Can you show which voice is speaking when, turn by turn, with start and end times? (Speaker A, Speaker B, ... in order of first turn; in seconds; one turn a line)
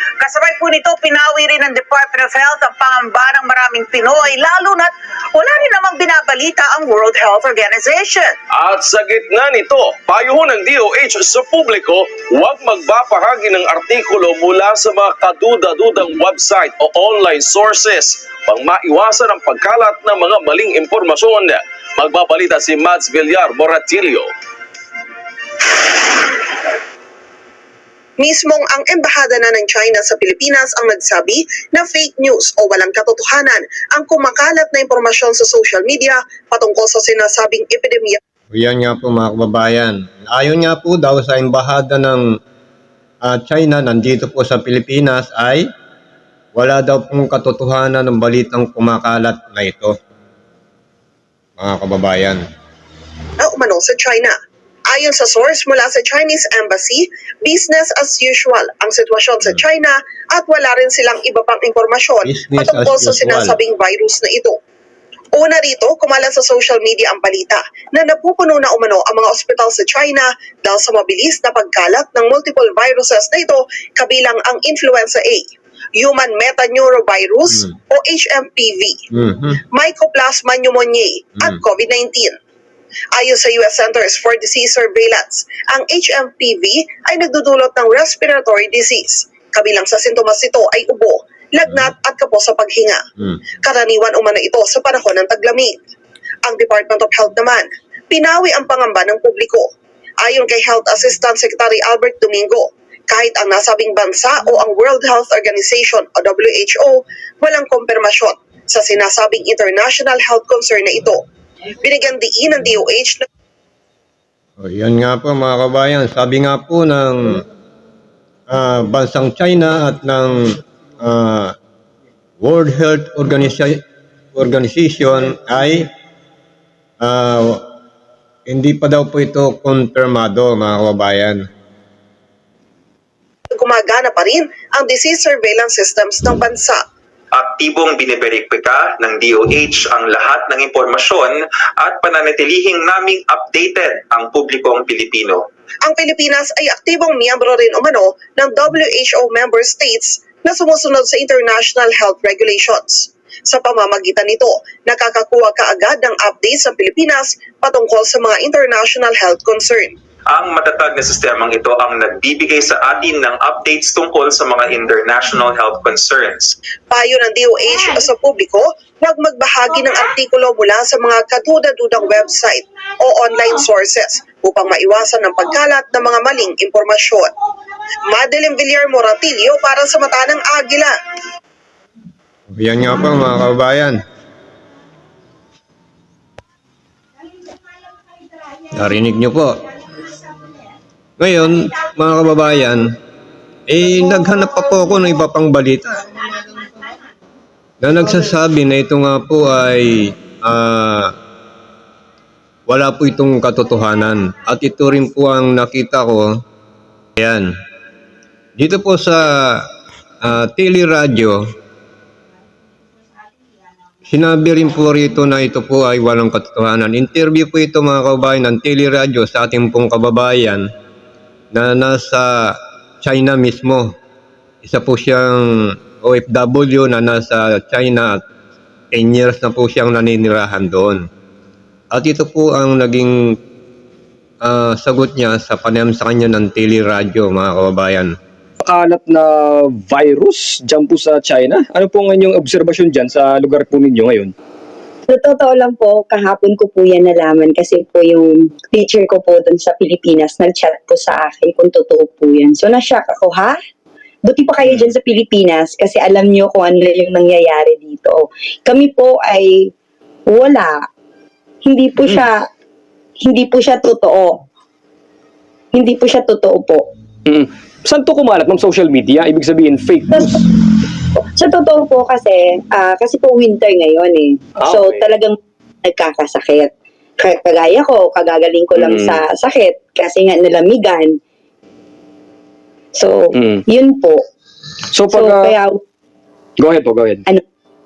Speaker A: 0.2-8.3
Speaker B: 8.5-24.3
Speaker C: 28.2-38.2
Speaker D: 38.5-42.2
Speaker D: 43.2-45.7
Speaker D: 46.5-49.9
Speaker D: 51.6-52.4
Speaker C: 53.4-54.3
Speaker C: 54.9-64.6
Speaker D: 62.2-63.6
Speaker C: 65.3-79.0
Speaker D: 79.1-79.6
Speaker C: 79.7-82.4
Speaker C: 83.1-93.0
Speaker C: 93.6-95.8
Speaker C: 96.4-99.7
Speaker C: 100.2-111.2
Speaker C: 111.8-113.2
Speaker D: 114.6-117.4
Speaker D: 118.5-120.3
Speaker D: 121.0-121.5
Speaker D: 122.4-123.8
Speaker D: 124.3-125.8
Speaker D: 127.0-127.6
Speaker D: 128.5-131.4
Speaker C: 133.5-136.8
Speaker E: 137.3-145.4
Speaker C: 145.8-159.9
Speaker E: 160.3-166.6
Speaker C: 166.9-177.3
Speaker C: 178.1-180.9
Speaker D: 182.5-184.0
Speaker D: 188.7-189.5
Speaker D: 191.2-192.8
Speaker D: 193.7-196.1
Speaker D: 197.8-201.1
Speaker D: 202.7-206.2
Speaker D: 207.2-207.5
Speaker D: 208.6-209.7
Speaker D: 210.2-211.4
Speaker D: 214.1-220.7
Speaker D: 221.5-223.9
Speaker D: 224.6-225.4
Speaker D: 226.0-228.2
Speaker D: 228.9-231.0
Speaker D: 231.9-233.1
Speaker D: 234.4-238.1
Speaker F: 238.6-244.3
Speaker G: 245.1-253.6
Speaker G: 254.2-259.7
Speaker G: 260.3-260.8
Speaker G: 261.6-262.4
Speaker G: 263.2-264.4
Speaker G: 265.7-266.9
Speaker F: 267.2-270.4
Speaker G: 270.1-270.4
Speaker G: 271.2-281.2
Speaker F: 274.6-275.0
Speaker F: 278.8-279.2
Speaker G: 282.9-284.2
Speaker F: 283.4-283.6
Speaker F: 284.9-285.5
Speaker G: 285.1-285.8
Speaker F: 286.6-287.2